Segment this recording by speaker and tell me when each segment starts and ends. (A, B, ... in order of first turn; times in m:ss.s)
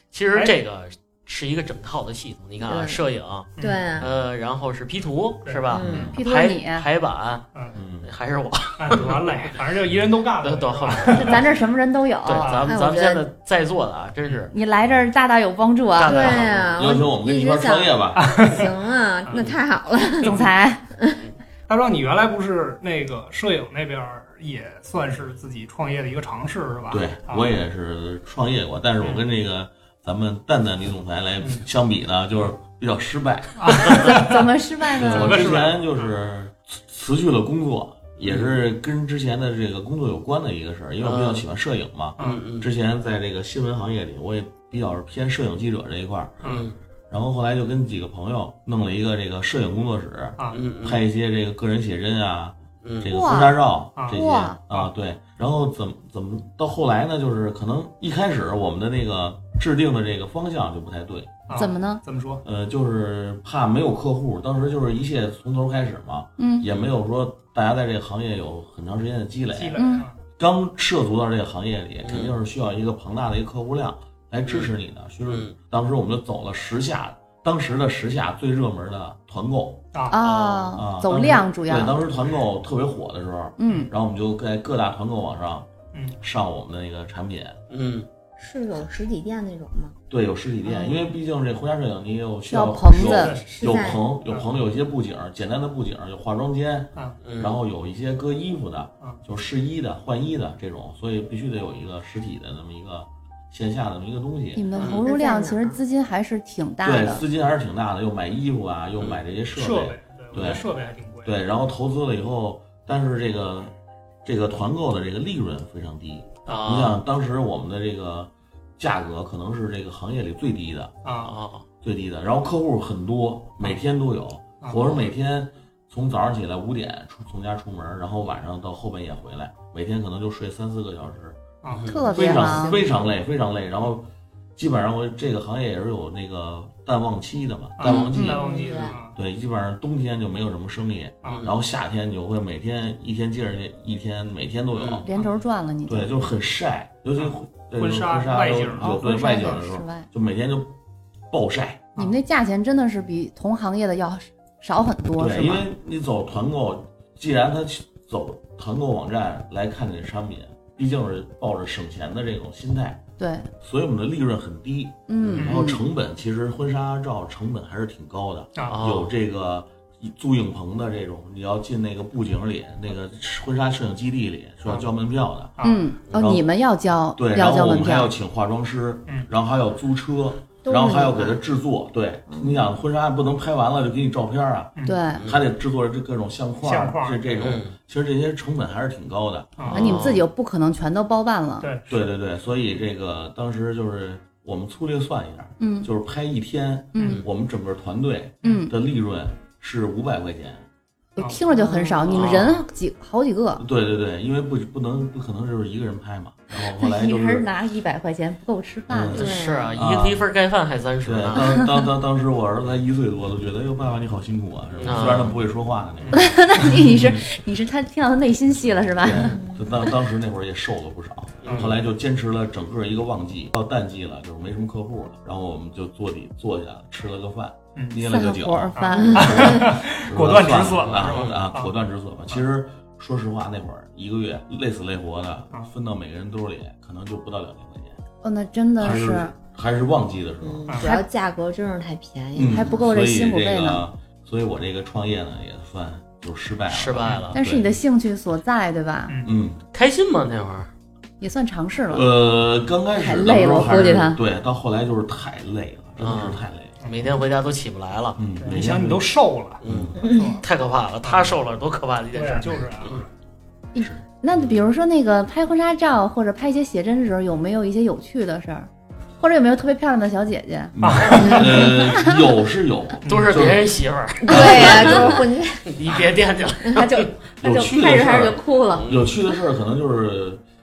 0:00.1-0:07.5 A
0:02.6-0:03.0 B
0:03.6-0:03.8 C
0:03.6-0:04.1 B
0:05.4-0:06.1 C
0:05.7-0:06.2 B
0:05.8-0:06.2 D
0:06.1-0:06.9 E
0:07.7-0:08.1 D
0:08.0-0:09.5 A
0:08.8-0:11.4 C
0:10.4-0:11.5 A
0:11.1-0:12.6 E
0:12.2-0:14.5 A
0:12.4-0:12.7 C
0:12.6-0:13.3 B
0:14.5-0:16.4 E
0:16.0-0:16.7 A
0:16.0-0:20.4 B
0:16.7-0:18.2 D
0:18.2-0:18.7 C
0:20.2-0:20.5 C
0:20.2-0:20.8 E
0:21.7-0:27.5 C
0:26.9-0:34.1 D
0:33.6-0:34.5 C
0:34.0-0:35.5 E
0:35.0-0:46.4 D
0:35.0-0:36.1 C
0:38.2-0:38.5 A
0:41.0-0:41.4 A
0:42.2-0:42.4 C
0:42.2-0:42.7 A
0:46.4-0:46.7 C
0:46.4-0:46.8 A
0:47.1-1:01.4 D
0:50.4-0:50.7 C
0:50.5-0:51.0 A
0:52.8-0:53.1 A
0:53.1-0:53.6 E
0:54.0-0:54.9 C
0:54.1-0:54.6 E
1:01.5-1:02.4 C
1:01.5-1:02.0 E
1:02.4-1:09.8 D
1:06.4-1:06.6 E
1:06.7-1:06.9 A
1:09.5-1:10.2 C
1:09.8-1:10.0 E
1:10.4-1:19.8 D
1:12.0-1:12.4 A
1:14.4-1:14.7 A
1:15.3-1:15.5 A
1:19.9-1:20.2 C
1:20.1-1:22.0 E
1:20.1-1:20.8 A
1:20.8-1:25.7 D
1:23.6-1:23.9 E
1:26.2-1:27.6 D
1:27.7-1:28.1 A
1:28.4-1:30.0 B
1:30.1-1:44.7 D
1:32.5-1:33.3 E
1:33.0-1:33.6 C
1:33.5-1:34.0 B
1:36.9-1:37.2 C
1:37.2-1:37.6 A
1:44.5-1:47.2 E
1:44.8-1:45.0 A
1:44.9-1:45.8 B
1:46.8-1:50.6 D
1:49.5-1:51.4 C
1:51.2-1:53.7 D
1:54.2-2:00.9 D
1:56.4-1:57.0 A
2:01.0-2:01.3 C
2:01.2-2:01.6 A
2:01.8-2:11.4 D
2:04.6-2:04.9 C
2:11.6-2:11.9 C
2:11.7-2:12.0 A
2:11.9-2:12.8 E
2:12.1-2:13.0 B
2:12.1-2:18.5 D
2:17.8-2:19.1 C
2:17.9-2:19.0 B
2:18.1-2:18.4 E
2:19.1-2:25.1 D
2:21.2-2:21.5 A
2:24.7-2:25.0 A
2:25.0-2:26.3 E
2:25.8-2:30.7 D
2:27.2-2:29.0 C
2:28.8-2:30.1 E
2:31.3-2:31.9 D
2:32.0-2:35.7 E
2:35.2-2:43.0 D
2:43.2-2:43.5 E
2:43.6-2:55.5 D
2:45.1-2:45.8 E
2:48.5-2:48.8 C
2:48.7-2:49.1 A
2:55.6-2:55.9 C
2:55.6-2:58.1 E
2:56.1-2:56.4 D
2:57.2-3:09.8 D
3:00.6-3:01.4 B
3:02.3-3:02.7 B
3:04.8-3:05.0 C
3:04.8-3:05.2 E
3:05.2-3:05.5 A
3:06.6-3:07.4 C
3:07.4-3:07.7 A
3:09.6-3:10.0 C
3:09.6-3:10.2 A
3:09.7-3:11.7 E
3:11.6-3:11.9 C
3:11.9-3:20.6 D
3:15.6-3:15.9 E
3:17.0-3:17.2 A
3:18.4-3:18.7 C
3:18.4-3:18.7 E
3:21.2-3:23.6 E
3:21.5-3:22.1 B
3:22.1-3:22.6 A
3:22.1-3:22.6 D
3:23.6-3:27.5 D
3:26.6-3:29.2 E
3:28.9-3:30.2 D
3:29.1-3:29.8 B
3:29.1-3:31.7 A
3:31.0-3:36.4 D
3:34.8-3:35.4 A
3:36.0-3:36.3 C
3:36.1-3:39.4 E
3:36.9-3:37.2 D
3:39.0-3:58.0 D
3:39.2-3:39.9 B
3:41.4-3:41.7 C
3:41.4-3:41.8 A
3:48.0-3:49.5 E
3:48.7-3:51.7 C
3:48.9-3:49.6 B
3:50.8-3:51.3 A
3:58.2-3:59.3 E
3:58.8-4:00.7 D
4:00.4-4:02.9 B
4:00.7-4:00.9 C
4:02.3-4:07.7 D
4:02.4-4:03.8 E
4:06.7-4:07.4 A
4:07.3-4:09.2 E
4:09.1-4:09.3 C
4:09.2-4:09.6 D
4:09.7-4:10.7 A
4:11.2-4:12.1 E
4:11.9-4:16.7 D
4:13.0-4:14.2 E
4:16.0-4:18.2 A
4:18.2-4:19.1 D
4:18.4-4:19.6 C
4:19.6-4:23.0 A
4:19.6-4:20.0 D
4:20.0-4:20.4 B
4:20.1-4:20.4 C
4:21.0-4:21.4 C
4:22.1-4:23.0 C
4:23.7-4:32.1 E
4:23.8-4:24.0 D
4:24.3-4:24.6 A
4:30.7-4:33.7 D
4:30.8-4:31.5 C
4:33.0-4:33.4 C
4:33.1-4:37.1 A
4:34.3-4:35.1 D
4:34.3-4:36.0 B
4:34.3-4:34.7 E
4:36.7-4:38.9 E
4:37.4-4:40.4 D
4:38.7-4:39.2 A